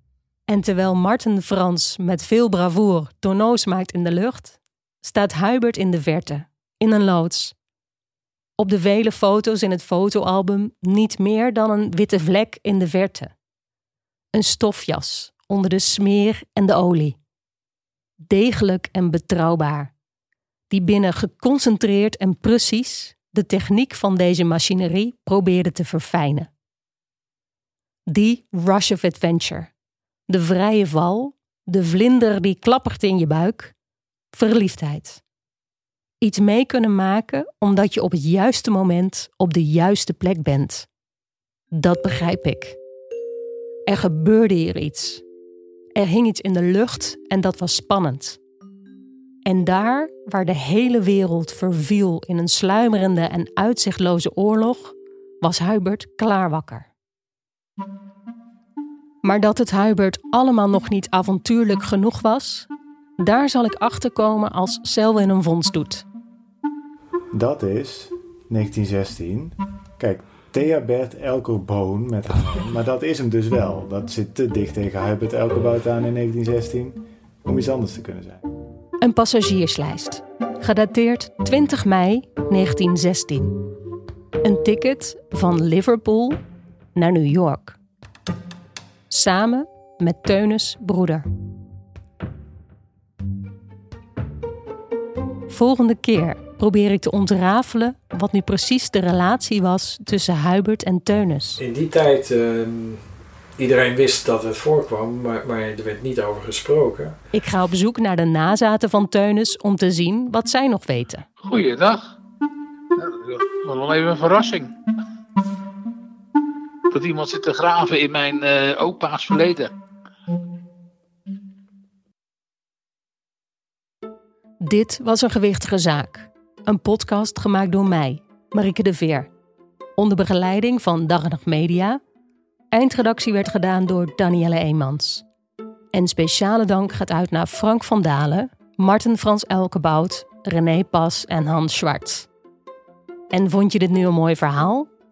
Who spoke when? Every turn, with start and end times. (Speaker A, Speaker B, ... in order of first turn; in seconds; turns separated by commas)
Speaker A: 0.5-7.5, Speaker A: 8.6-13.3, Speaker A: 14.3-17.2, Speaker A: 18.2-19.9, Speaker A: 20.7-26.5, Speaker A: 28.1-29.7, Speaker A: 30.3-33.7, Speaker A: 34.3-35.2, Speaker A: 36.2-40.9, Speaker A: 41.7-42.8, Speaker A: 43.9-45.2, Speaker A: 46.0-48.4, Speaker A: 49.5-56.9, Speaker A: 59.2-62.7, Speaker A: 63.2-66.0, Speaker B: 67.3-78.4, Speaker A: 79.0-83.6, Speaker A: 84.4-86.4, Speaker A: 87.0-87.8, Speaker A: 89.1-91.3, Speaker A: 95.5-101.6, Speaker C: 101.6-103.0, Speaker C: 103.6-107.2, Speaker A: 107.3-111.3, Speaker D: 111.4-112.1, Speaker D: 113.0-114.7, Speaker D: 116.9-119.7, Speaker A: 124.6-129.3, Speaker A: 130.0-132.0, Speaker A: 132.7-135.2, Speaker A: 135.9-142.3, Speaker A: 143.3-144.9